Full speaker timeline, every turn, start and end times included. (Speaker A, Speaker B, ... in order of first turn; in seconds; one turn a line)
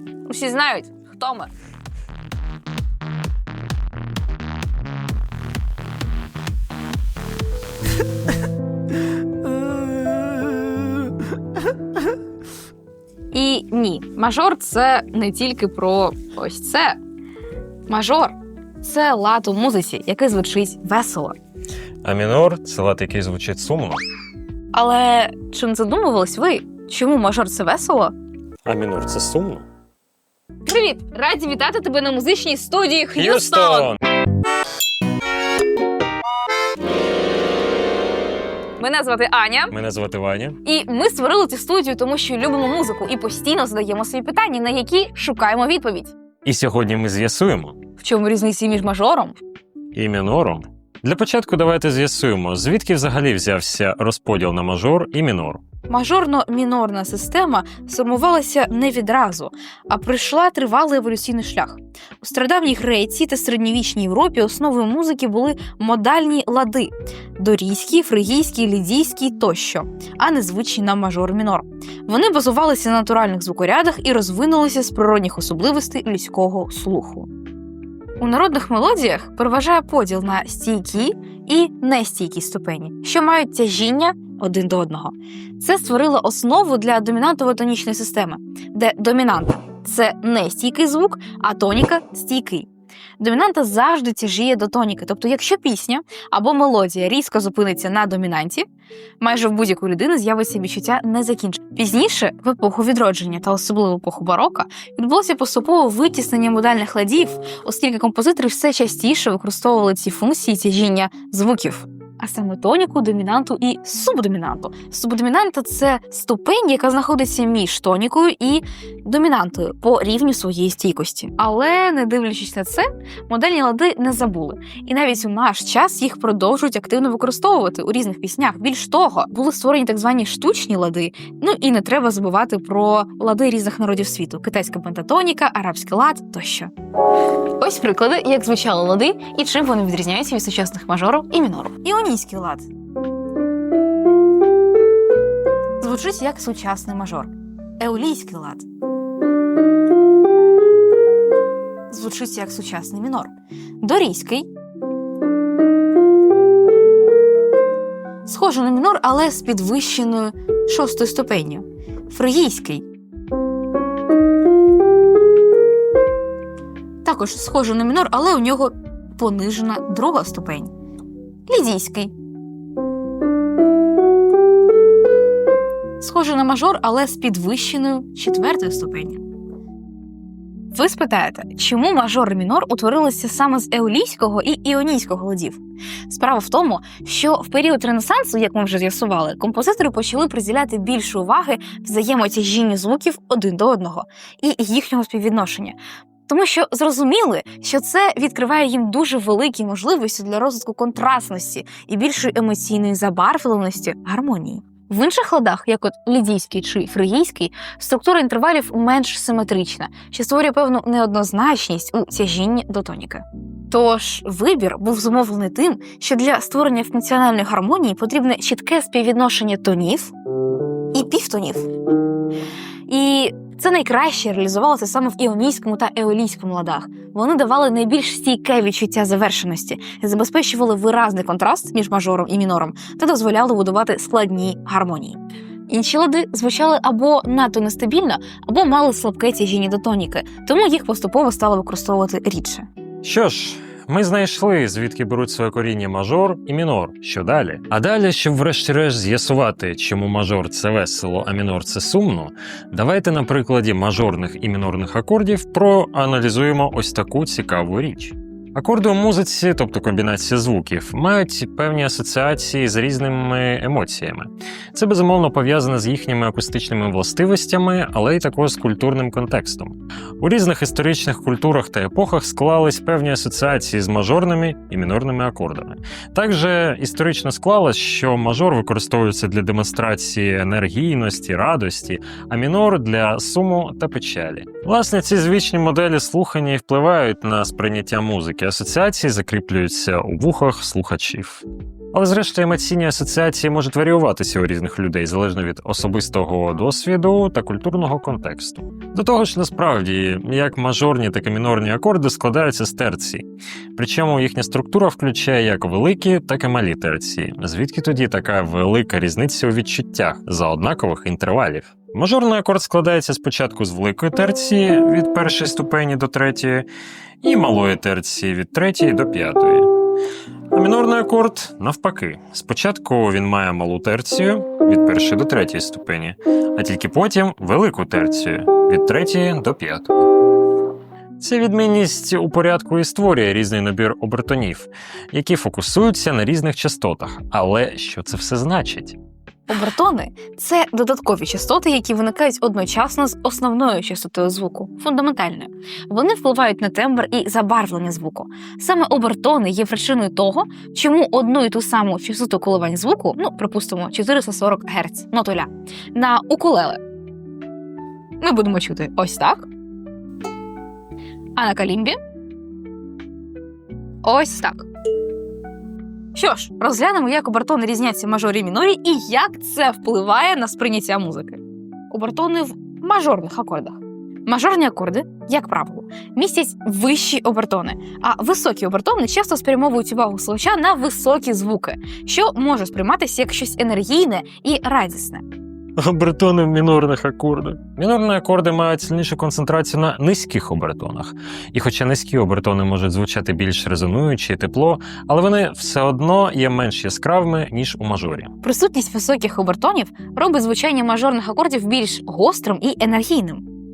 Speaker A: 0.2-1.5
Speaker A: 13.3-17.0
Speaker A: 17.9-21.4
Speaker B: 22.0-24.0
Speaker A: 24.7-28.1
Speaker B: 28.6-29.6
Speaker A: 30.7-33.9
Speaker B: 33.2-34.0
Speaker A: 38.8-39.7
Speaker B: 39.7-40.6
Speaker A: 40.6-46.1
Speaker B: 46.5-47.8
Speaker A: 48.0-49.4
Speaker B: 49.9-55.6
Speaker A: 55.9-77.3
Speaker A: 78.2-92.7
Speaker A: 93.2-98.7
Speaker A: 99.2-136.7
Speaker A: 137.6-142.7
Speaker A: 145.8-148.7
Speaker A: 151.9-154.5
Speaker A: 158.2-162.8
Speaker A: 167.0-170.7
Speaker A: 171.5-172.1
Speaker A: 176.0-179.2
Speaker A: 180.7-220.1
Speaker A: 220.9-221.7
Speaker A: 222.9-235.2
Speaker A: 235.7-242.7
Speaker B: 243.0-316.7
Speaker B: 317.2-319.7
Speaker B: 320.5-330.1
Speaker B: 331.2-339.0
Speaker A: 339.5-356.8
Speaker A: 358.2-359.5
Speaker A: 361.4-362.0
Speaker A: 364.0-364.7
Speaker A: 366.1-385.2
Speaker B: 385.8-398.3
Speaker A: 398.4-403.4